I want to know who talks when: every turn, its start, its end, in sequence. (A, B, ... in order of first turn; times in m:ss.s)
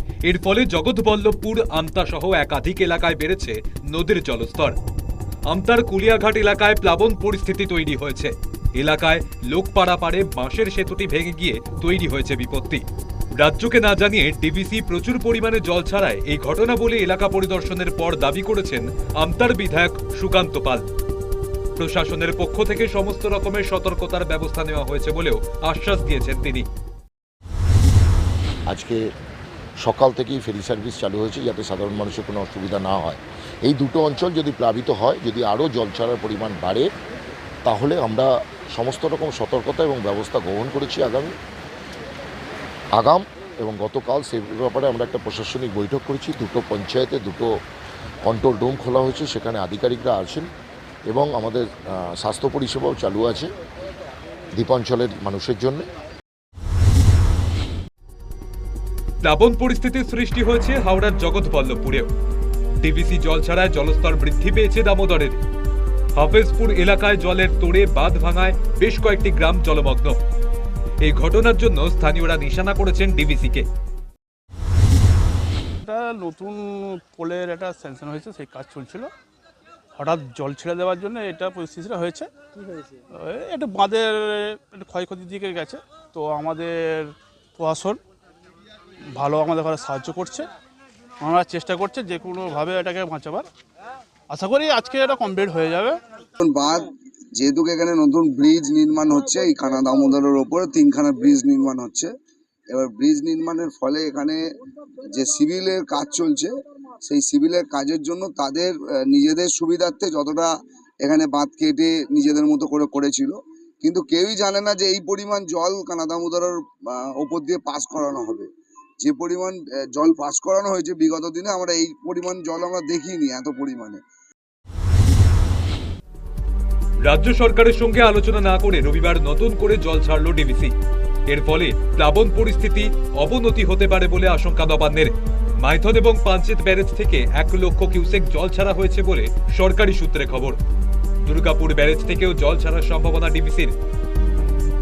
0:00.2-0:04.8 A
0:05.5-0:12.8 A
0:13.4-0:20.8 A
0:21.8-0:26.7 A
0:28.7-0:29.0 B
0:29.8-0:36.9 B
0:37.6-0:41.3 B
0:43.0-0:47.5 B
0:48.2-0:50.5 B
0:51.1-0:53.5 B
0:54.6-0:55.8 B
0:59.2-1:02.1 A
1:02.8-1:05.4 A
1:06.2-1:10.2 A
1:11.0-1:13.6 A
1:15.8-1:19.1 C
1:19.9-1:22.3 C
1:22.9-1:28.0 C
1:29.1-1:30.5 C
1:31.2-1:33.5 C
1:34.3-1:36.0 C
1:36.4-1:42.1 D
1:42.7-1:44.4 D
1:45.0-1:46.5 D
1:47.0-1:50.5 D
1:51.0-1:58.5 D
1:59.0-2:04.0 D
2:07.0-2:10.7 A
2:11.3-2:20.6 A
2:21.2-2:23.7 A